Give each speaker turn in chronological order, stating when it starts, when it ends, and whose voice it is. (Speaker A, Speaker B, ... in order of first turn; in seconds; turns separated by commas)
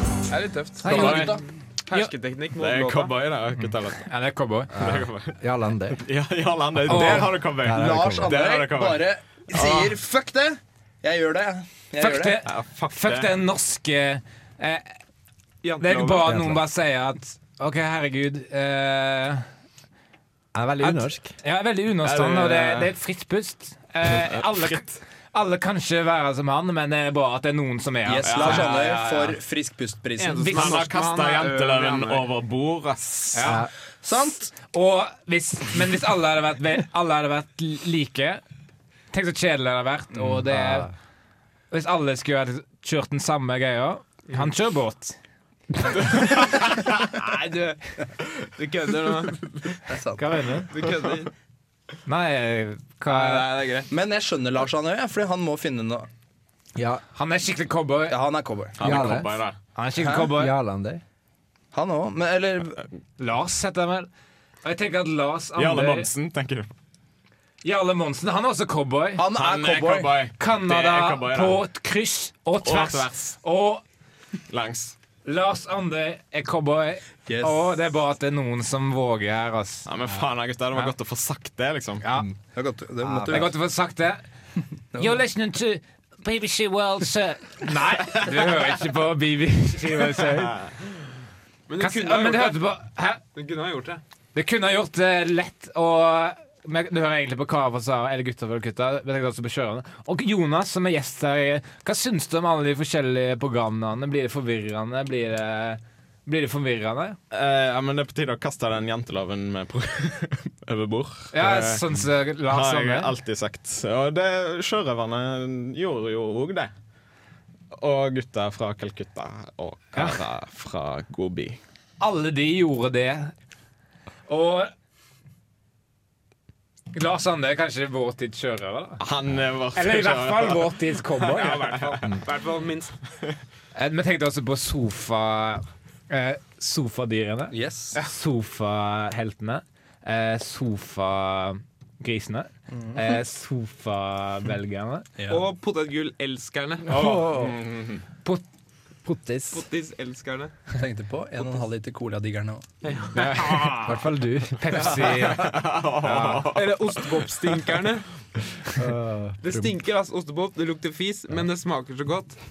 Speaker A: 0.3-3.1, Speaker B: 0.8-1.3, Speaker C: 0.8-1.4, Speaker D: 0.9-1.2, Speaker E: 1.0-1.3, Speaker D: 2.5-4.0, Speaker B: 3.6-4.7, Speaker D: 4.8-5.4, Speaker E: 4.8-6.0, Speaker D: 6.0-9.9, Speaker B: 6.9-7.3, Speaker E: 6.9-8.4, Speaker C: 7.7-12.4, Speaker B: 12.0-14.9, Speaker D: 12.4-13.3, Speaker A: 15.6-16.2, Speaker B: 15.8-19.4, Speaker E: 16.2-16.6, Speaker E: 20.5-21.3, Speaker B: 20.8-28.7, Speaker D: 22.0-22.9, Speaker D: 24.1-24.9, Speaker C: 28.1-30.6, Speaker D: 28.2-28.9, Speaker A: 28.4-29.3, Speaker A: 30.2-32.2, Speaker B: 30.4-30.8, Speaker D: 30.5-33.6, Speaker B: 33.3-33.6, Speaker E: 33.4-33.7, Speaker C: 34.0-34.5, Speaker B: 34.6-38.4, Speaker B: 39.1-40.9, Speaker E: 40.1-40.9, Speaker B: 41.7-45.2, Speaker A: 46.1-49.7, Speaker C: 49.9-50.2, Speaker B: 50.2-50.7, Speaker A: 50.7-51.3, Speaker B: 52.0-53.5, Speaker A: 53.0-53.9, Speaker C: 53.9-56.1, Speaker E: 56.8-57.0, Speaker B: 57.1-58.2, Speaker C: 58.1-58.8, Speaker D: 58.8-59.5, Speaker E: 58.8-59.4, Speaker B: 59.7-60.5, Speaker C: 60.0-60.3, Speaker E: 60.3-61.0, Speaker C: 61.7-62.8, Speaker B: 63.2-64.1, Speaker B: 64.6-66.1, Speaker D: 65.5-66.7, Speaker B: 67.6-69.2, Speaker C: 69.2-70.2, Speaker D: 69.3-71.6, Speaker B: 70.4-73.8, Speaker D: 72.6-73.4, Speaker D: 74.5-74.9, Speaker B: 75.2-79.9, Speaker C: 77.3-77.7, Speaker D: 79.8-82.0, Speaker B: 82.0-82.3, Speaker C: 82.5-83.5, Speaker E: 83.0-83.4, Speaker B: 83.3-84.2, Speaker B: 85.0-90.7, Speaker A: 91.7-92.6, Speaker B: 91.8-93.2, Speaker A: 93.3-94.0, Speaker B: 94.3-107.2, Speaker D: 107.3-111.9, Speaker B: 111.3-113.1, Speaker D: 112.4-116.7, Speaker D: 117.7-121.6, Speaker B: 119.9-120.2, Speaker B: 122.0-123.3, Speaker B: 124.3-124.7, Speaker B: 126.9-129.0, Speaker D: 129.0-130.7, Speaker B: 129.7-131.7, Speaker A: 131.3-132.9, Speaker B: 133.7-145.1, Speaker C: 137.5-138.0, Speaker C: 142.7-143.2, Speaker C: 145.2-145.4, Speaker A: 145.3-147.2, Speaker E: 146.9-147.6, Speaker D: 147.3-148.0, Speaker E: 149.0-149.6, Speaker A: 149.5-150.5, Speaker C: 150.7-152.6, Speaker A: 152.8-153.8, Speaker B: 153.1-154.0, Speaker E: 153.8-155.1, Speaker B: 154.6-156.5, Speaker D: 155.2-157.1, Speaker A: 156.5-158.1, Speaker E: 158.8-159.7, Speaker A: 159.4-162.4